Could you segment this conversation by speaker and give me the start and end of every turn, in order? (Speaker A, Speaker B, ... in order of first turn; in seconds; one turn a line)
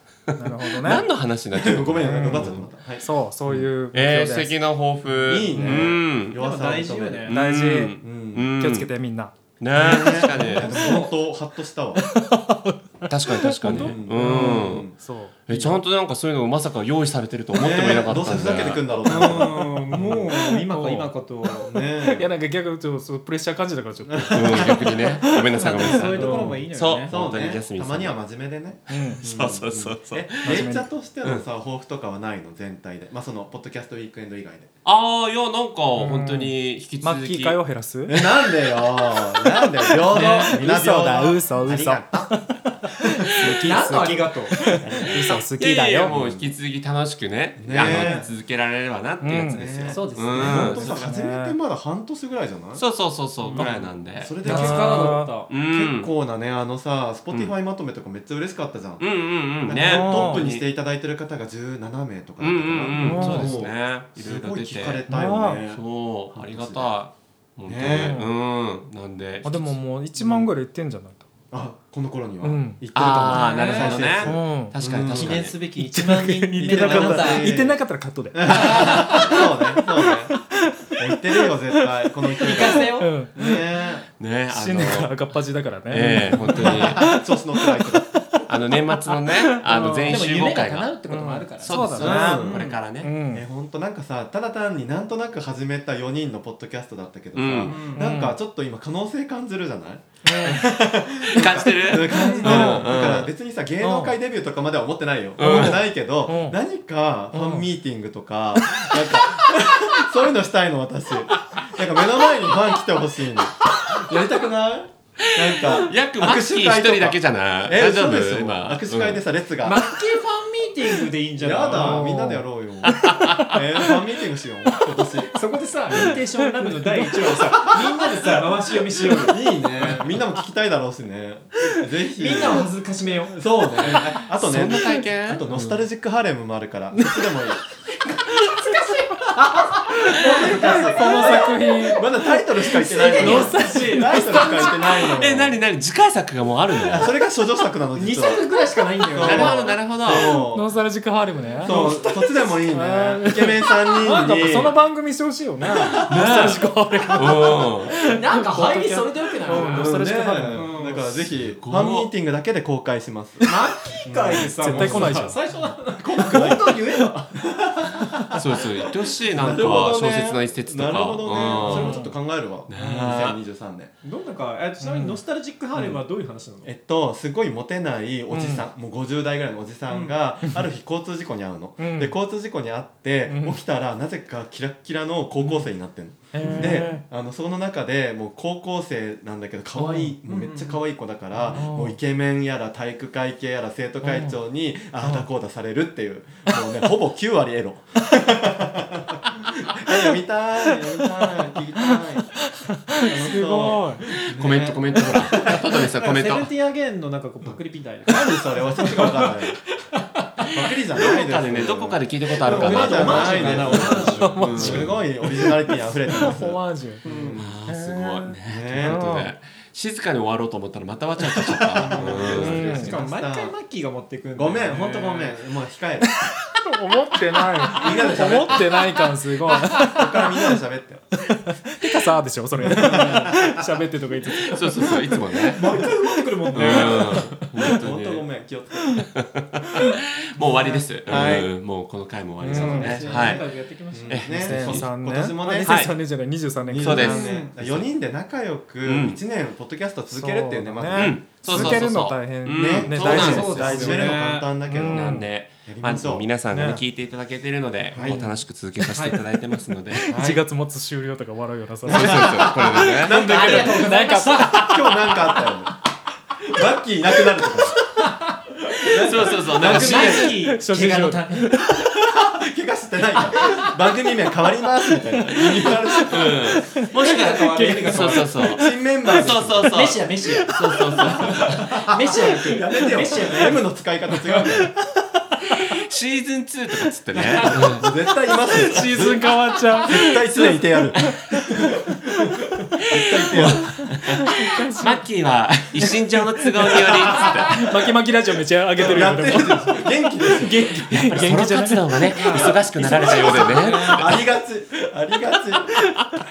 Speaker A: 0.3-2.6
Speaker B: 0.3-1.1
Speaker C: 1.5-3.1
Speaker B: 2.0-4.6
Speaker A: 3.5-6.4
Speaker C: 5.2-7.3
Speaker D: 6.3-7.3
Speaker A: 7.3-8.9
Speaker B: 7.3-9.3
Speaker C: 8.0-8.4
Speaker A: 9.6-10.8
Speaker C: 9.7-12.1
Speaker B: 9.9-11.1
Speaker D: 10.7-11.1
Speaker B: 12.0-15.3
Speaker A: 13.1-14.9
Speaker C: 13.7-15.8
Speaker A: 15.5-18.9
Speaker C: 17.6-20.3
Speaker D: 19.0-21.7
Speaker B: 19.9-26.6
Speaker C: 21.6-22.3
Speaker C: 24.1-24.7
Speaker A: 24.3-28.2
Speaker D: 25.6-27.1
Speaker C: 27.1-34.7
Speaker B: 28.9-29.2
Speaker A: 29.1-30.6
Speaker B: 30.4-30.9
Speaker A: 34.8-37.6
Speaker B: 36.0-38.2
Speaker C: 38.1-42.3
Speaker B: 40.0-46.1
Speaker A: 40.1-40.5
Speaker D: 43.4-44.8
Speaker C: 44.8-45.4
Speaker A: 44.9-51.0
Speaker C: 46.0-46.5
Speaker C: 47.6-48.3
Speaker B: 47.8-48.2
Speaker B: 49.2-49.6
Speaker C: 49.5-52.9
Speaker D: 49.8-50.8
Speaker B: 50.7-51.5
Speaker A: 52.8-54.4
Speaker C: 53.4-59.0
Speaker D: 54.4-55.5
Speaker B: 54.4-55.3
Speaker A: 55.5-56.1
Speaker A: 59.0-60.6
Speaker C: 59.6-66.9
Speaker B: 59.8-60.5
Speaker A: 62.4-65.0
Speaker B: 63.0-63.6
Speaker B: 65.1-65.6
Speaker A: 65.7-69.8
Speaker C: 67.7-68.2
Speaker B: 67.9-68.3
Speaker B: 69.4-71.3
Speaker C: 70.2-70.5
Speaker C: 71.5-75.5
Speaker B: 72.4-73.0
Speaker A: 72.9-75.5
Speaker D: 73.3-74.0
Speaker B: 74.1-74.8
Speaker D: 75.1-77.6
Speaker B: 75.8-79.4
Speaker C: 76.6-80.4
Speaker C: 81.0-84.0
Speaker B: 81.7-83.6
Speaker D: 82.4-83.1
Speaker A: 84.2-85.3
Speaker B: 84.5-87.2
Speaker A: 85.9-87.1
Speaker C: 86.6-88.1
Speaker B: 88.1-88.4
Speaker A: 88.5-90.9
Speaker B: 89.1-90.2
Speaker D: 90.0-92.8
Speaker B: 91.0-92.4
Speaker A: 91.6-93.1
Speaker C: 91.9-92.6
Speaker B: 93.0-93.4
Speaker C: 93.3-119.8
Speaker A: 97.3-97.8
Speaker D: 97.6-98.1
Speaker B: 97.9-98.4
Speaker D: 100.3-100.6
Speaker A: 101.3-103.3
Speaker D: 102.1-102.8
Speaker B: 102.4-102.9
Speaker B: 103.8-104.2
Speaker A: 105.4-105.8
Speaker B: 105.4-106.6
Speaker B: 107.3-107.7
Speaker A: 115.3-119.2
Speaker D: 119.6-122.1
Speaker C: 121.4-125.4
Speaker B: 121.7-123.1
Speaker A: 122.9-123.6
Speaker D: 125.3-129.4
Speaker C: 125.9-126.2
Speaker B: 125.9-127.0
Speaker C: 129.1-132.7
Speaker D: 132.2-133.4
Speaker C: 133.3-137.6
Speaker A: 134.3-135.8
Speaker B: 134.7-135.0
Speaker B: 136.9-137.2
Speaker D: 138.2-139.3
Speaker C: 139.4-145.6
Speaker B: 140.2-142.4
Speaker D: 140.9-141.3
Speaker D: 142.7-144.2
Speaker B: 143.1-144.6
Speaker A: 144.2-147.1
Speaker C: 146.8-148.4
Speaker D: 147.9-149.8
Speaker A: 149.1-150.4
Speaker C: 149.2-150.7
Speaker B: 150.2-160.7
Speaker C: 151.6-154.8
Speaker D: 151.6-152.0
Speaker A: 155.9-157.9
Speaker D: 157.9-160.0
Speaker C: 159.6-163.5
Speaker D: 160.5-161.2
Speaker A: 161.3-162.1
Speaker D: 163.4-167.4
Speaker C: 164.0-165.2
Speaker B: 164.4-165.4
Speaker C: 165.9-167.8
Speaker A: 168.3-172.0
Speaker C: 169.3-173.9
Speaker B: 171.6-172.1
Speaker A: 172.7-173.4
Speaker D: 172.8-173.2
Speaker D: 174.0-176.7
Speaker B: 174.8-175.2
Speaker C: 176.6-199.2
Speaker B: 178.3-178.7
Speaker B: 181.8-182.2
Speaker B: 183.3-183.6
Speaker B: 186.3-187.0
Speaker B: 189.7-190.2
Speaker D: 190.2-190.8
Speaker B: 191.5-192.0
Speaker B: 194.0-194.4
Speaker B: 195.0-195.3
Speaker C: 199.8-202.4
Speaker B: 202.7-204.0
Speaker C: 203.0-205.6
Speaker A: 204.2-206.5
Speaker D: 205.4-209.6
Speaker C: 208.1-209.6
Speaker C: 210.5-217.6
Speaker A: 211.1-215.0
Speaker D: 212.4-214.9
Speaker B: 214.2-217.0
Speaker D: 217.0-217.4
Speaker A: 217.4-222.7
Speaker B: 217.7-219.3
Speaker C: 218.4-219.0
Speaker B: 221.6-222.9
Speaker C: 221.7-223.5
Speaker D: 222.6-225.4
Speaker C: 224.3-226.2
Speaker B: 226.7-230.1
Speaker C: 227.7-228.9
Speaker C: 229.8-231.0
Speaker B: 231.3-235.1
Speaker C: 232.6-233.2
Speaker D: 232.7-233.5
Speaker A: 234.3-235.6
Speaker D: 235.5-237.3
Speaker A: 236.5-238.3
Speaker B: 236.7-237.0
Speaker C: 237.8-238.9
Speaker A: 239.1-243.5
Speaker C: 241.1-241.5
Speaker D: 241.1-241.4
Speaker B: 242.4-243.2
Speaker C: 242.5-246.0
Speaker D: 242.6-244.5
Speaker A: 244.1-244.9
Speaker B: 244.4-247.3
Speaker A: 245.6-246.0
Speaker C: 246.7-251.9
Speaker A: 246.8-247.9
Speaker D: 247.1-247.5
Speaker A: 248.8-249.2
Speaker B: 250.1-255.3
Speaker A: 250.9-253.6
Speaker C: 252.4-256.3
Speaker D: 253.0-254.7
Speaker A: 254.8-260.1
Speaker B: 256.5-256.8
Speaker C: 257.9-258.3
Speaker B: 258.0-258.4
Speaker D: 258.9-259.2
Speaker B: 260.0-264.7
Speaker C: 260.1-260.4
Speaker C: 261.9-265.8
Speaker A: 261.9-263.2
Speaker D: 262.9-265.3
Speaker C: 266.4-267.8
Speaker D: 268.0-268.4
Speaker C: 268.8-270.3
Speaker A: 269.0-270.4
Speaker D: 269.5-271.5
Speaker B: 270.3-272.0
Speaker C: 272.0-276.8
Speaker B: 275.2-276.1
Speaker A: 276.1-281.7
Speaker D: 276.8-278.5
Speaker C: 278.6-279.8
Speaker B: 279.1-279.3
Speaker D: 279.7-283.6
Speaker B: 280.4-280.8
Speaker C: 281.0-284.7
Speaker A: 285.4-287.8
Speaker B: 287.2-287.8
Speaker C: 287.3-289.2
Speaker B: 288.5-291.4
Speaker A: 288.8-289.1
Speaker C: 289.8-291.2
Speaker C: 292.8-294.0
Speaker A: 293.2-297.6
Speaker B: 293.4-295.0
Speaker B: 296.6-302.5
Speaker C: 298.8-300.8
Speaker D: 300.5-300.8
Speaker A: 300.9-304.1
Speaker D: 302.1-304.1
Speaker C: 303.1-305.8
Speaker B: 305.6-306.0